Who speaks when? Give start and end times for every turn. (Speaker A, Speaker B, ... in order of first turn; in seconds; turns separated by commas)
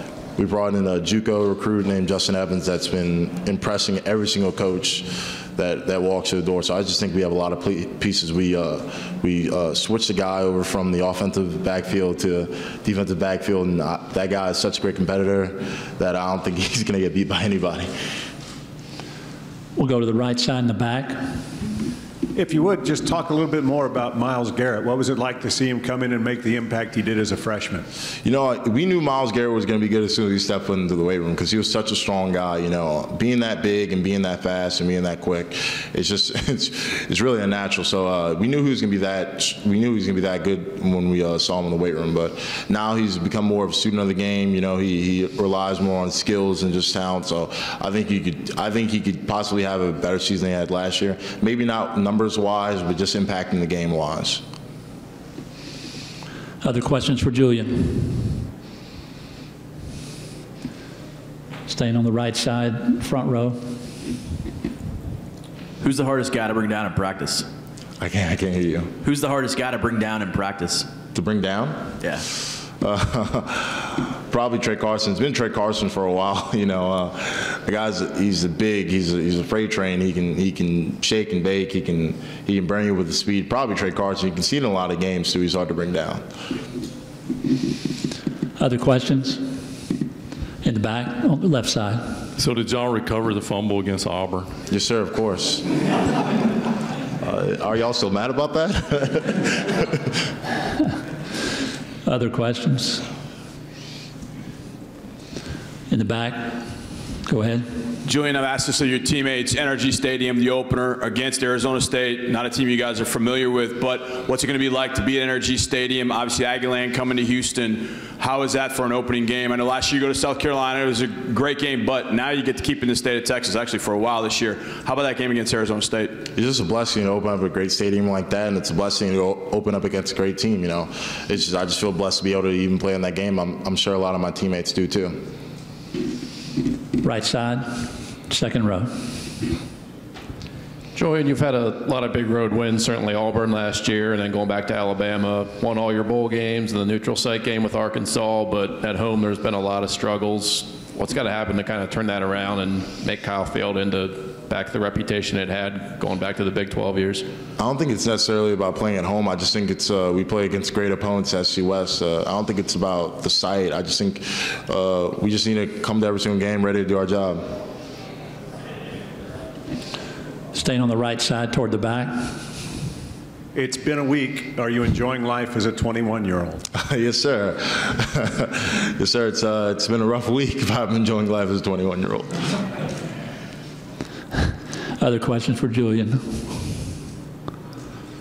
Speaker A: 0.4-17.9, Speaker B: 19.8-21.2, Speaker C: 22.3-27.9, Speaker A: 28.2-54.4, Speaker B: 56.6-58.4, Speaker B: 61.7-63.6, Speaker D: 65.8-67.5, Speaker A: 68.0-68.9, Speaker D: 69.0-70.9, Speaker A: 71.1-71.8, Speaker A: 72.8-86.2, Speaker B: 88.6-89.4, Speaker B: 90.6-92.2, Speaker E: 92.4-94.5, Speaker A: 94.7-95.7, Speaker A: 97.2-100.0, Speaker B: 102.0-103.0, Speaker B: 105.9-106.6, Speaker B: 107.3-107.6, Speaker F: 108.0-126.2, Speaker A: 126.3-135.2, Speaker B: 137.0-138.9, Speaker G: 140.9-157.2, Speaker A: 157.6-167.4, Speaker B: 170.5-172.4, Speaker C: 173.5-176.6, Speaker A: 176.8-182.3, Speaker B: 185.0-186.6